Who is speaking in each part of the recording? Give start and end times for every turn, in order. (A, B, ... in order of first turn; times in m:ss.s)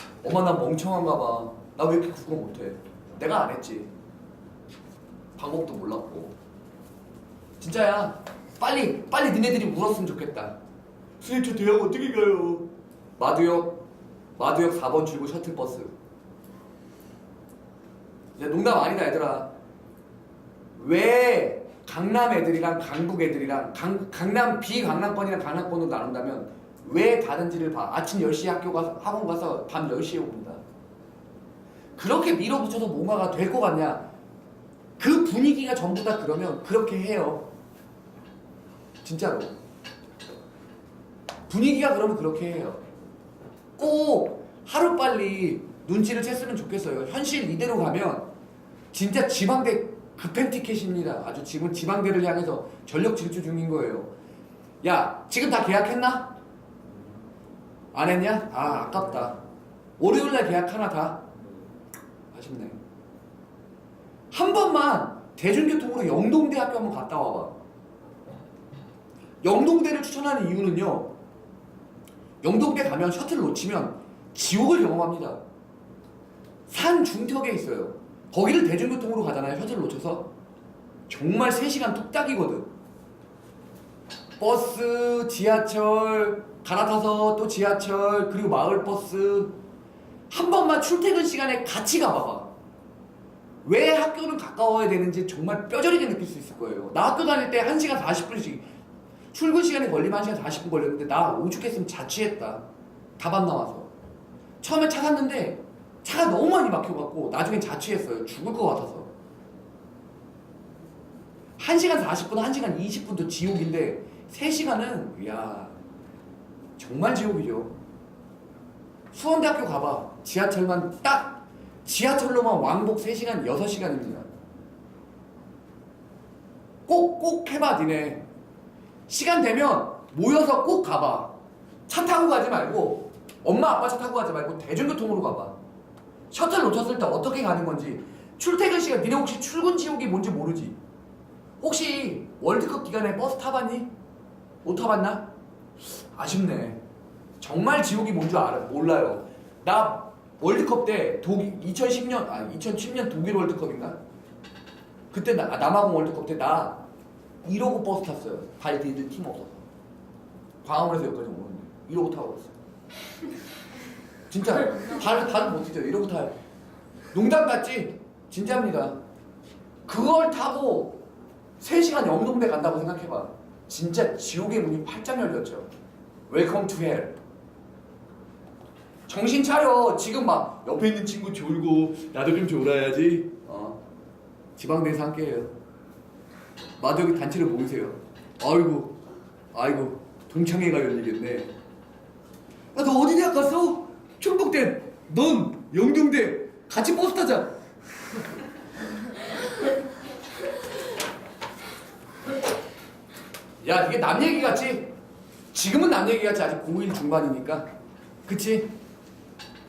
0:00.2-0:03.9 A
0:05.4-0:06.4 A
0:07.6-0:10.6 A
0:11.2-0:12.6 A
0:13.2-0:13.8 A
0:14.4-0:15.9 A
0:18.4-0:19.5 A
0:20.7-0:30.6 A
0:32.0-0:34.1 A
0:35.0-0:37.5 A
0:39.0-0:39.5 A
0:41.5-0:42.8 A
0:43.8-0:48.3 A
0:48.9-0:54.1 A
0:54.8-0:56.4 A
0:57.9-0:59.4 A
1:00.0-1:01.2 A
1:02.3-1:02.8 A
1:04.3-1:07.6 A
1:09.4-1:11.2 A
1:12.4-1:15.4 A
1:16.7-1:20.3 A
1:21.1-1:22.7 A
1:24.4-1:29.6 A
1:30.3-1:32.5 A
1:33.6-1:38.7 A
1:39.3-1:42.6 A
1:43.2-1:43.9 A
1:44.6-1:49.1 A
1:51.6-1:55.8 A
1:56.8-1:57.7 A
1:59.1-2:04.3 A
2:06.9-2:08.2 A
2:09.1-2:15.6 A
2:16.3-2:20.8 A
2:21.6-2:23.9 A
2:24.6-2:25.3 A
2:25.8-2:26.8 A
2:27.4-2:34.0 A
2:35.1-2:36.8 A
2:37.4-2:39.6 A
2:40.6-2:42.5 A
2:44.3-2:46.4 A
2:47.1-2:49.0 A
2:49.8-2:51.0 A
2:51.6-2:55.7 A
2:56.3-2:57.2 A
2:59.1-3:03.8 A
3:04.6-3:05.5 A
3:06.8-3:09.0 A
3:09.5-3:11.5 A
3:12.7-3:17.6 A
3:23.6-3:24.9 A
3:25.5-3:27.7 A
3:28.2-3:28.7 A